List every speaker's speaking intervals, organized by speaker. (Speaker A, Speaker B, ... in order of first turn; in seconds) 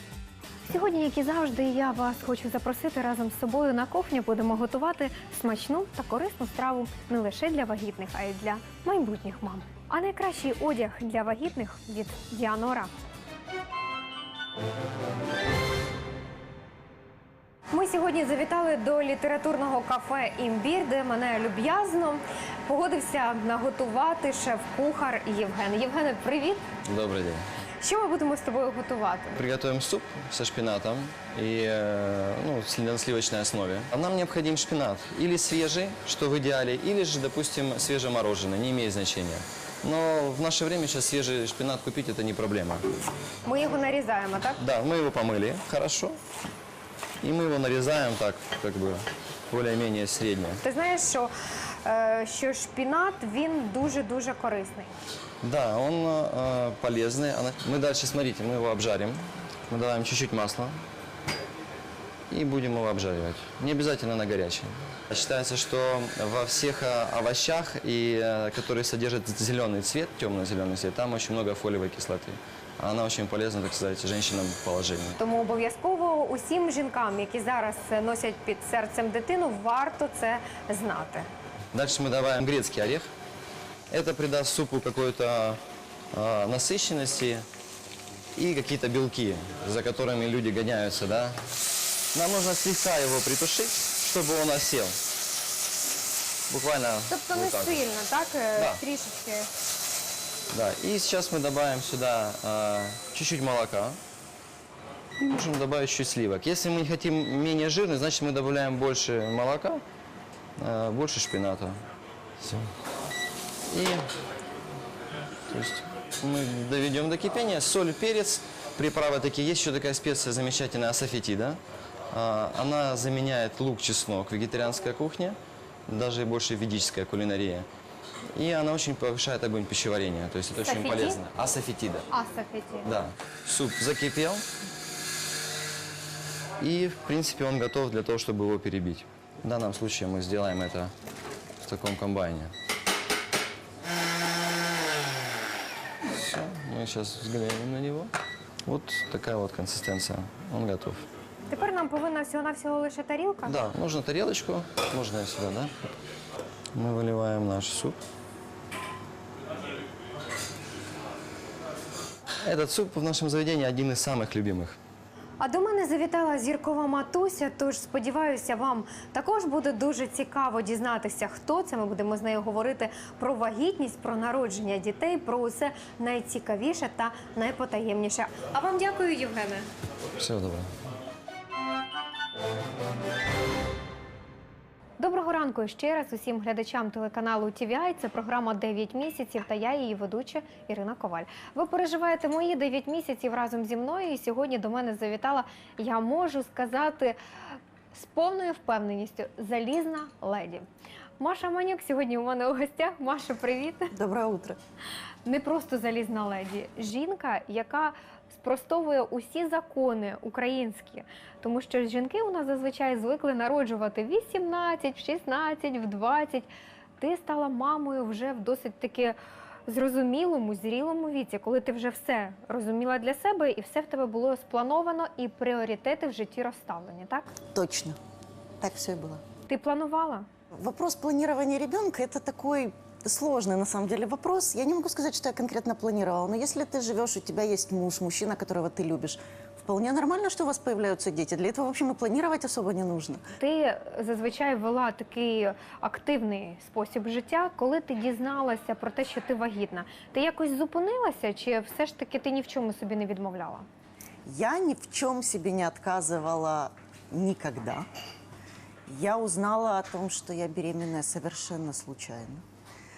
Speaker A: 0.7-12.9, 17.7-26.6, 27.8-29.4, 43.4-44.6, 50.6-51.3, 51.8-54.9, 75.2-81.3, 97.1-99.5, 130.6-131.2, 132.1-132.9, 151.5-153.5, 165.4-179.7, 185.0-197.2, 197.9-200.6, 201.2-203.9, 205.2-219.2, 219.7-227.3, 229.5-230.3, 243.4-253.7
Speaker B: 26.8-27.4, 29.4-42.8, 44.6-46.2, 47.2-50.6, 55.4-60.8, 62.3-75.2, 81.7-83.1, 83.9-85.6, 86.1-87.5, 88.3-91.4, 92.1-95.0, 96.5-97.8, 100.5-104.0, 105.2-109.8, 110.6-111.8, 112.4-112.7, 113.7-114.1, 115.5-121.6, 122.1-127.7, 128.3-132.1, 132.8-134.4, 136.6-140.9, 141.6-142.5, 146.0-148.1, 148.7-151.0, 153.4-155.7, 156.7-158.0, 162.4-164.8, 180.2-180.7
Speaker C: 203.9-204.6, 227.5-228.0, 228.6-229.2, 230.5-243.2, 254.2-257.9, 258.9-262.4